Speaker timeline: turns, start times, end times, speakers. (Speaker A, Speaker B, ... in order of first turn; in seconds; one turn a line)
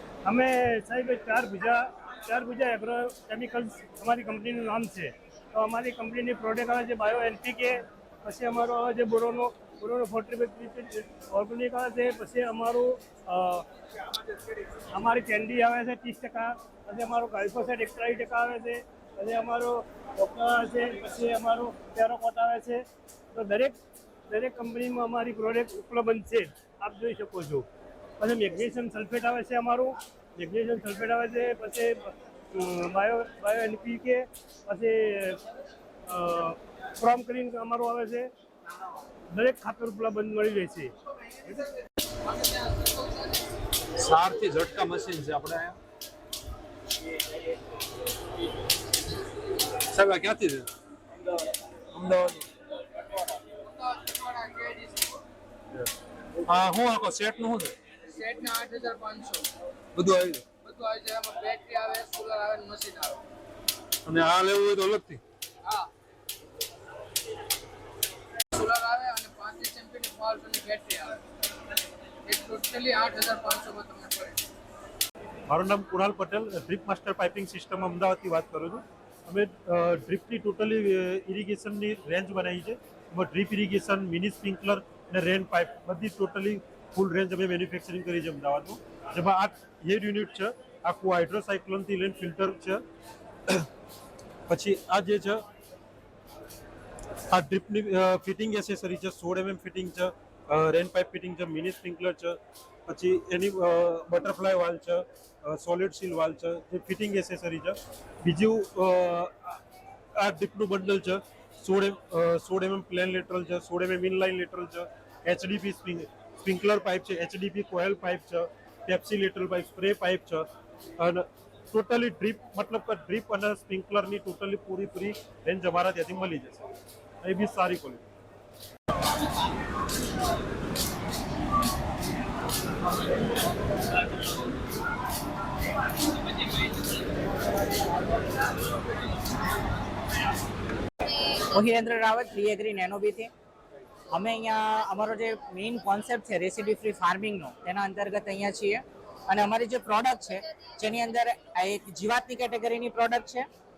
Speaker A: 0.2-13.6
Speaker A: 14.9-22.8
Speaker A: 23.3-23.8
Speaker A: 24.3-27.6
Speaker A: 28.2-35.4
Speaker A: 36.1-38.3
Speaker A: 39.3-40.9
Speaker B: 44.0-45.8
Speaker B: 49.9-50.7
Speaker B: 51.9-52.4
Speaker C: 53.7-55.1
Speaker B: 56.5-57.7
Speaker C: 58.1-59.5
Speaker B: 60.0-60.4
Speaker C: 60.6-63.2
Speaker B: 64.0-65.2
Speaker C: 68.6-71.2
Speaker C: 72.3-74.3
Speaker D: 75.5-92.8
Speaker D: 94.5-95.4
Speaker D: 97.3-109.6
Speaker D: 110.1-120.5
Speaker D: 121.0-126.7
Speaker D: 127.2-128.1
Speaker E: 141.5-143.3
Speaker E: 144.1-153.5